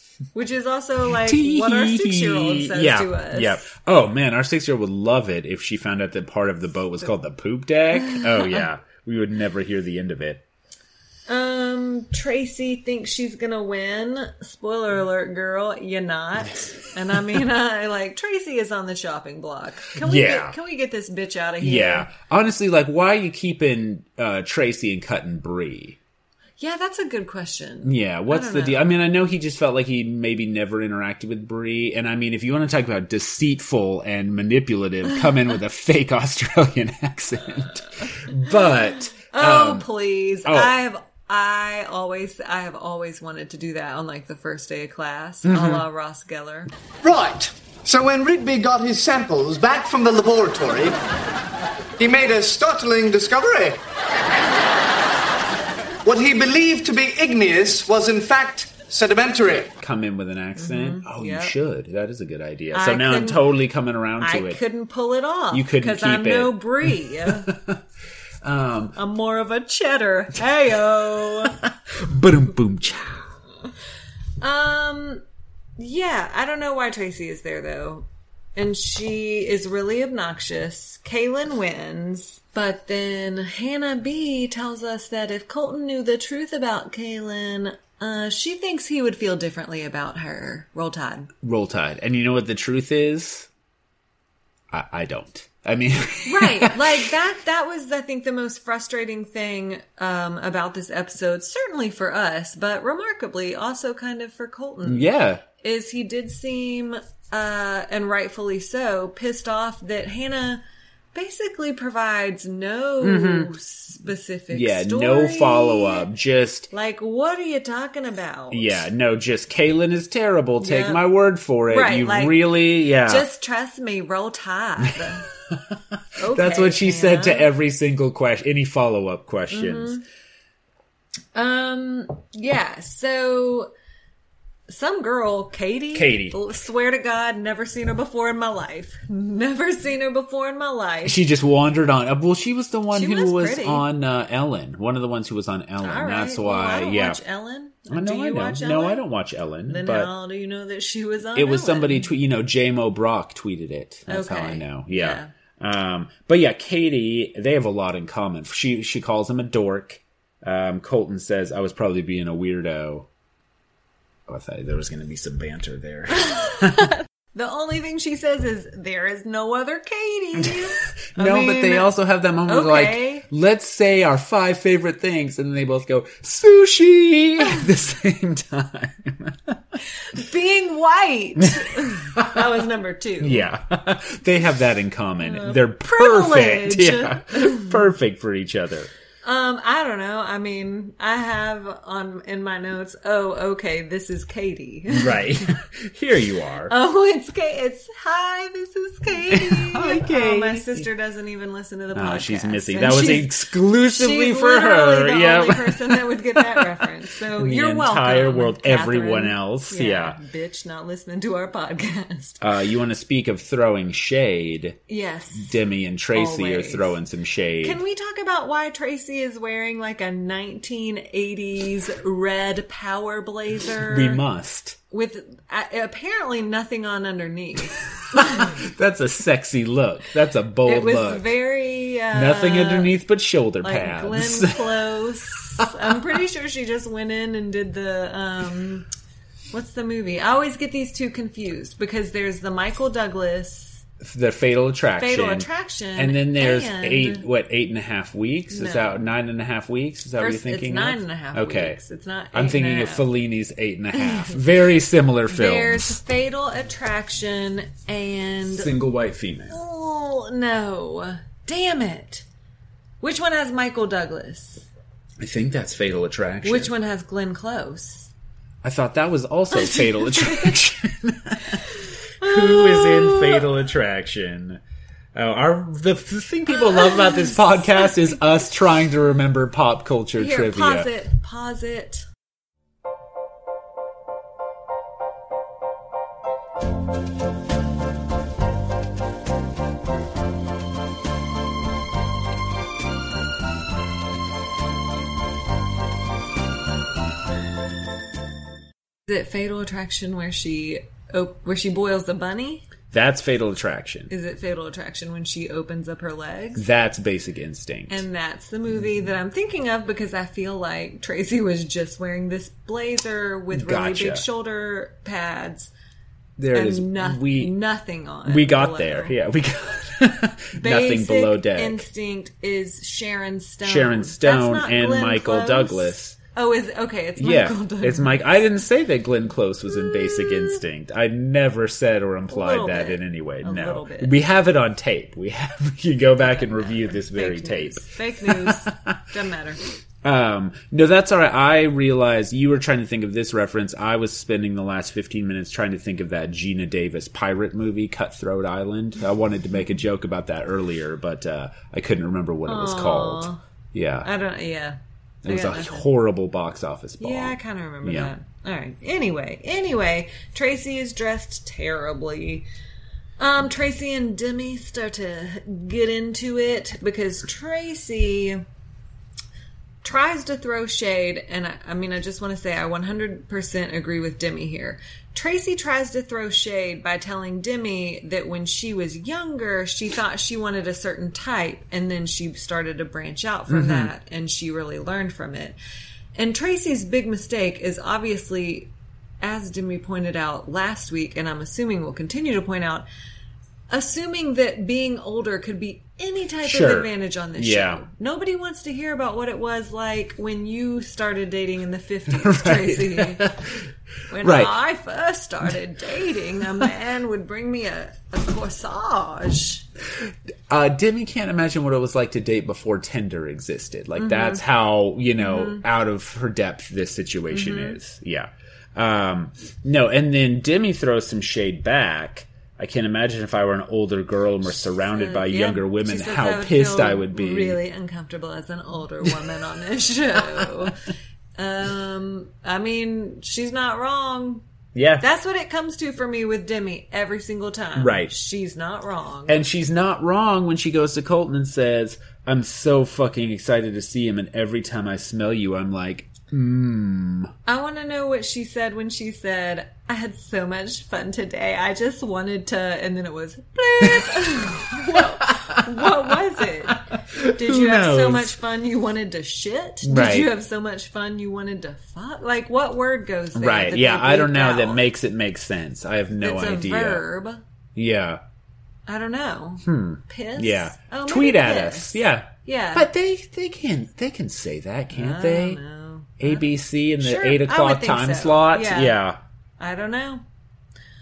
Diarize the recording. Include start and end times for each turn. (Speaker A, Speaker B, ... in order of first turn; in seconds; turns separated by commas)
Speaker A: 0.3-3.7, Speaker B: 1.2-10.4, Speaker A: 7.9-8.7, Speaker A: 11.3-22.1, Speaker B: 20.0-20.6, Speaker B: 21.6-26.0, Speaker A: 26.6-28.9, Speaker B: 27.8-39.9, Speaker A: 39.3-46.7, Speaker B: 40.4-40.8, Speaker B: 45.5-45.9, Speaker C: 47.0-51.0, Speaker C: 52.0-53.8, Speaker C: 56.0-59.8, Speaker B: 59.8-64.6, Speaker A: 60.6-61.5, Speaker A: 62.7-63.5, Speaker A: 64.2-67.5, Speaker B: 65.5-67.8, Speaker B: 68.4-69.0, Speaker A: 69.0-71.6, Speaker B: 72.0-73.3, Speaker A: 74.4-75.2, Speaker A: 75.8-91.3, Speaker B: 91.4-93.5, Speaker B: 94.7-97.0, Speaker A: 96.3-110.6, Speaker B: 104.8-105.4, Speaker A: 111.1-116.1, Speaker B: 113.0-113.5, Speaker B: 114.5-116.7, Speaker A: 116.7-118.8, Speaker B: 118.5-123.3, Speaker A: 120.6-121.0, Speaker A: 121.7-125.3, Speaker A: 126.2-127.5, Speaker B: 126.2-130.0, Speaker A: 129.5-130.0, Speaker A: 131.3-133.7, Speaker A: 134.7-141.2, Speaker B: 135.9-136.4, Speaker B: 141.1-147.2, Speaker A: 142.9-143.9, Speaker A: 145.8-149.0, Speaker B: 147.9-150.1, Speaker A: 149.7-152.1, Speaker B: 151.3-163.1, Speaker A: 154.1-155.3, Speaker B: 164.3-166.9, Speaker A: 167.3-171.9, Speaker B: 171.2-179.6, Speaker A: 172.4-173.3, Speaker A: 180.1-183.5, Speaker B: 181.9-182.3, Speaker B: 183.2-188.9, Speaker A: 185.2-187.8, Speaker A: 189.2-195.4, Speaker B: 194.9-196.7, Speaker A: 196.7-212.4, Speaker B: 199.1-200.9, Speaker B: 201.9-210.2, Speaker B: 212.4-214.8, Speaker A: 214.9-215.6, Speaker B: 215.4-217.8, Speaker A: 216.1-217.0, Speaker A: 217.6-224.2, Speaker B: 223.9-224.8, Speaker A: 224.9-228.6, Speaker B: 228.1-231.3, Speaker A: 230.7-233.0, Speaker B: 232.1-234.6, Speaker A: 233.6-238.9, Speaker A: 239.5-243.8, Speaker B: 244.0-251.8, Speaker A: 245.0-247.3, Speaker A: 248.5-249.0, Speaker A: 250.2-253.1, Speaker B: 252.3-256.0, Speaker A: 255.3-258.7, Speaker B: 258.5-259.6, Speaker A: 259.5-262.2, Speaker A: 263.0-264.7, Speaker B: 265.2-266.7, Speaker A: 266.4-268.1, Speaker B: 268.6-271.7, Speaker A: 269.5-270.6, Speaker B: 272.2-274.6, Speaker A: 272.2-273.5, Speaker B: 275.1-280.9, Speaker A: 276.5-278.3, Speaker A: 280.2-282.1, Speaker A: 299.1-302.7, Speaker B: 302.9-304.1, Speaker A: 304.1-306.7, Speaker B: 306.6-308.0, Speaker A: 307.9-315.7, Speaker B: 313.5-314.3, Speaker B: 316.4-317.6, Speaker A: 316.5-319.2, Speaker B: 318.3-321.8, Speaker A: 320.6-328.4, Speaker B: 323.6-326.2, Speaker B: 327.2-339.0, Speaker A: 329.7-330.6, Speaker A: 332.3-334.2, Speaker A: 336.2-339.6, Speaker B: 340.0-354.1, Speaker A: 352.5-353.4, Speaker A: 354.0-355.9, Speaker B: 355.2-358.1, Speaker A: 357.0-362.5, Speaker A: 363.2-368.4, Speaker A: 369.8-385.6, Speaker B: 383.5-383.9, Speaker A: 386.2-392.9, Speaker A: 393.7-403.3, Speaker B: 396.4-397.8, Speaker B: 402.1-403.6, Speaker A: 404.1-409.6, Speaker B: 404.2-404.6, Speaker B: 410.5-427.6, Speaker A: 414.0-414.4, Speaker A: 415.2-415.6, Speaker A: 417.3-417.8, Speaker A: 424.8-430.8, Speaker A: 431.4-434.4, Speaker B: 434.8-435.1, Speaker A: 435.0-439.5, Speaker B: 437.8-438.1, Speaker B: 439.3-447.3, Speaker A: 447.5-464.8, Speaker B: 455.3-456.0, Speaker B: 456.8-458.4, Speaker B: 459.8-460.3, Speaker B: 463.4-467.0, Speaker A: 466.2-467.4, Speaker B: 467.8-468.2, Speaker A: 468.9-472.9, Speaker B: 469.6-475.6, Speaker A: 474.9-476.5, Speaker B: 476.2-479.2, Speaker A: 477.0-479.0, Speaker A: 479.6-480.2